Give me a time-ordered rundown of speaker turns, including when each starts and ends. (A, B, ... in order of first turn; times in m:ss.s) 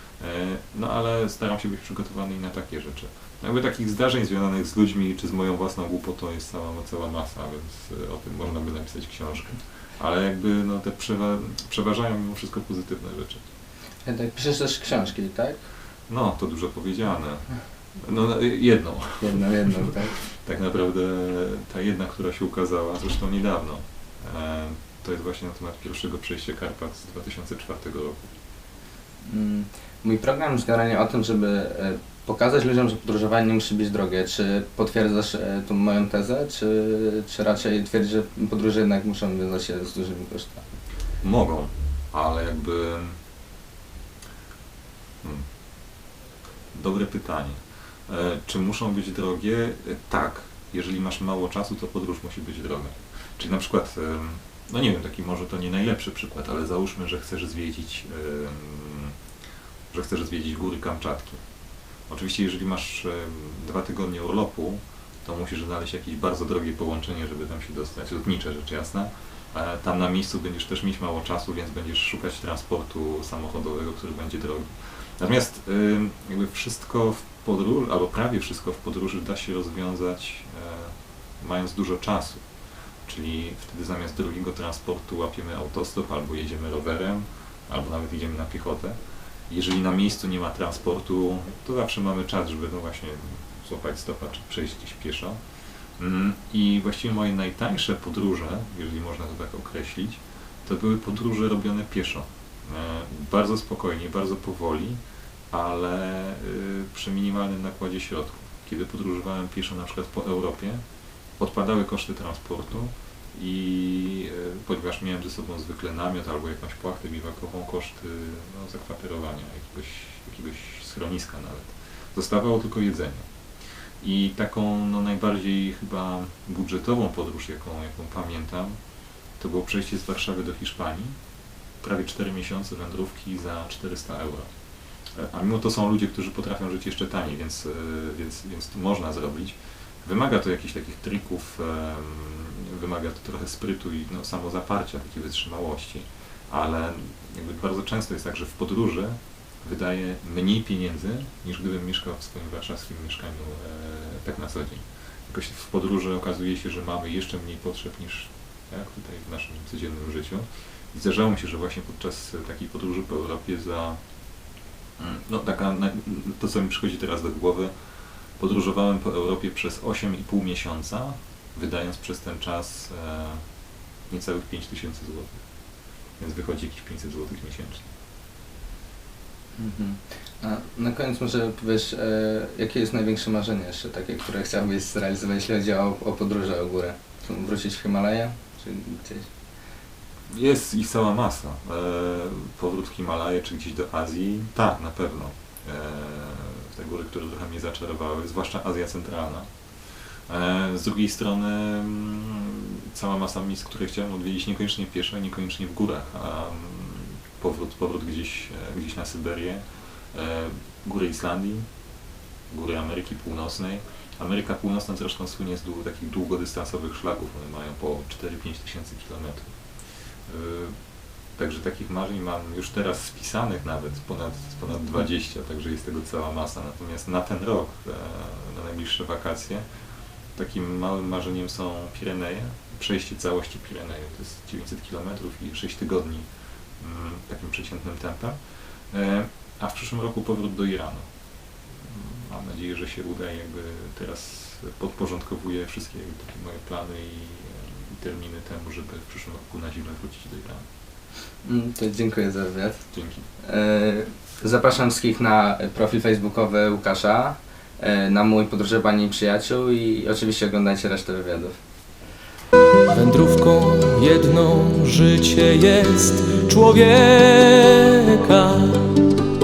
0:00.2-0:13.4 A
0:14.0-0:15.6 B
0:16.1-0:28.3 A
0:19.2-0:20.2 B
0:29.2-0:40.6 B
0:41.2-0:43.2 A
0:46.7-0:59.2 A
0:59.9-1:01.4 A
1:02.1-1:22.4 A
1:23.0-1:29.0 A
1:29.5-1:35.4 A
1:36.0-1:45.0 A
1:45.5-1:50.8 A
1:51.4-2:03.2 A
2:04.0-2:08.8 A
2:09.4-2:11.2 A
2:11.8-2:14.5 A
2:15.2-2:44.0 A
2:45.0-2:47.7 A
2:48.4-2:53.4 A
2:54.1-2:55.4 A
2:56.2-2:57.8 A
2:59.6-3:09.3 B
3:10.3-3:19.5 A
3:20.3-3:31.6 A
3:32.5-3:39.5 A
3:40.3-3:40.7 A
3:41.4-3:49.6 A
3:50.4-3:56.2 A
3:56.8-3:58.4 A
3:58.9-4:01.0 A
4:01.8-4:10.6 A
4:11.4-4:12.8 B
4:12.9-4:13.2 A
4:13.4-4:21.5 B
4:22.9-4:29.0 C